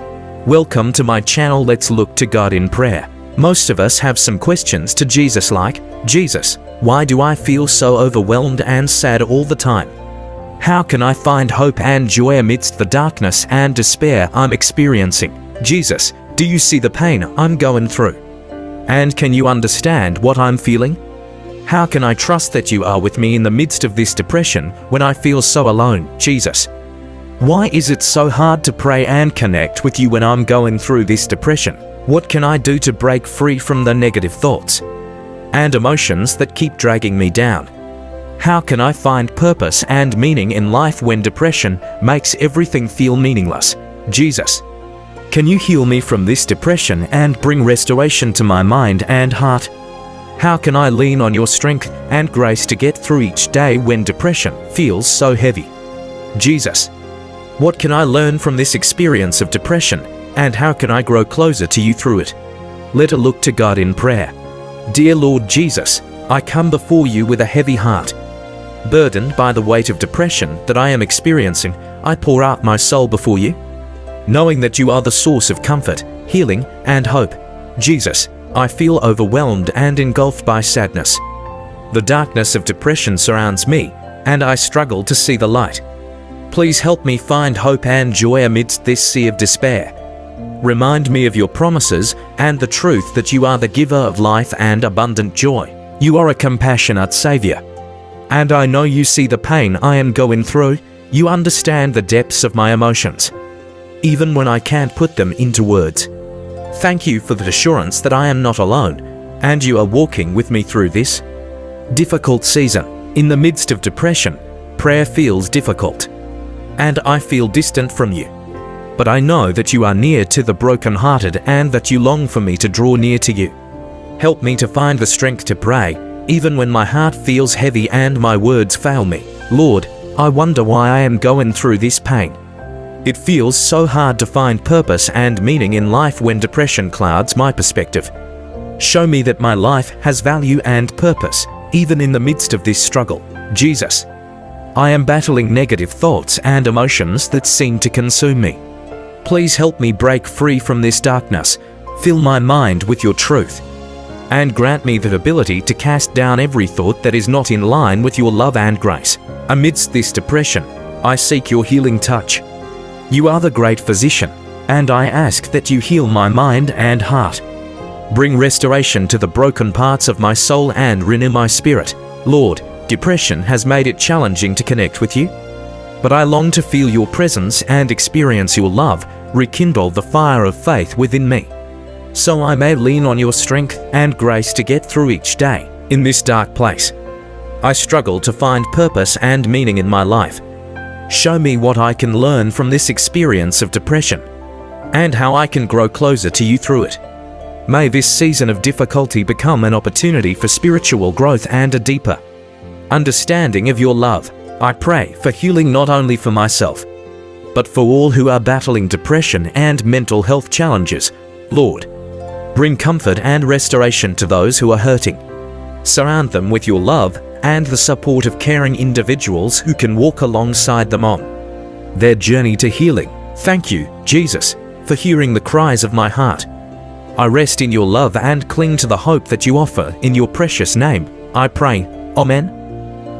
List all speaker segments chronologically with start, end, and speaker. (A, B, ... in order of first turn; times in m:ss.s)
0:00.4-0:09.9 A
0:10.6-0:18.2 A
0:18.9-0:21.0 A
0:21.6-0:26.7 A
0:27.4-0:34.8 A
0:35.5-0:37.7 A
0:38.4-0:44.6 A
0:45.3-0:49.7 A
0:50.4-0:55.7 A
0:56.3-0:56.9 A
0:57.6-1:02.4 A
1:02.9-1:04.3 A
1:04.9-1:08.1 A
1:08.8-1:13.6 A
1:14.3-1:21.2 A
1:21.9-1:25.8 A
1:26.5-1:29.9 A
1:30.6-1:37.6 A
1:38.3-1:43.3 A
1:44.0-1:46.1 A
1:46.7-1:51.2 A
1:51.9-1:56.1 A
1:56.8-1:58.3 A
1:59.0-2:03.5 A
2:04.2-2:12.4 A
2:13.0-2:18.1 A
2:18.8-2:24.1 A
2:24.7-2:28.6 A
2:29.2-2:33.6 A
2:34.3-2:42.4 A
2:43.1-2:47.4 A
2:48.1-2:55.3 A
2:56.0-3:01.5 A
3:02.1-3:06.9 A
3:07.6-3:10.4 A
3:11.1-3:14.2 A
3:14.9-3:17.0 A
3:17.7-3:22.2 A
3:22.9-3:26.8 A
3:27.5-3:31.9 A
3:32.5-3:35.2 A
3:35.8-3:41.3 A
3:41.9-3:46.5 A
3:47.2-3:52.5 A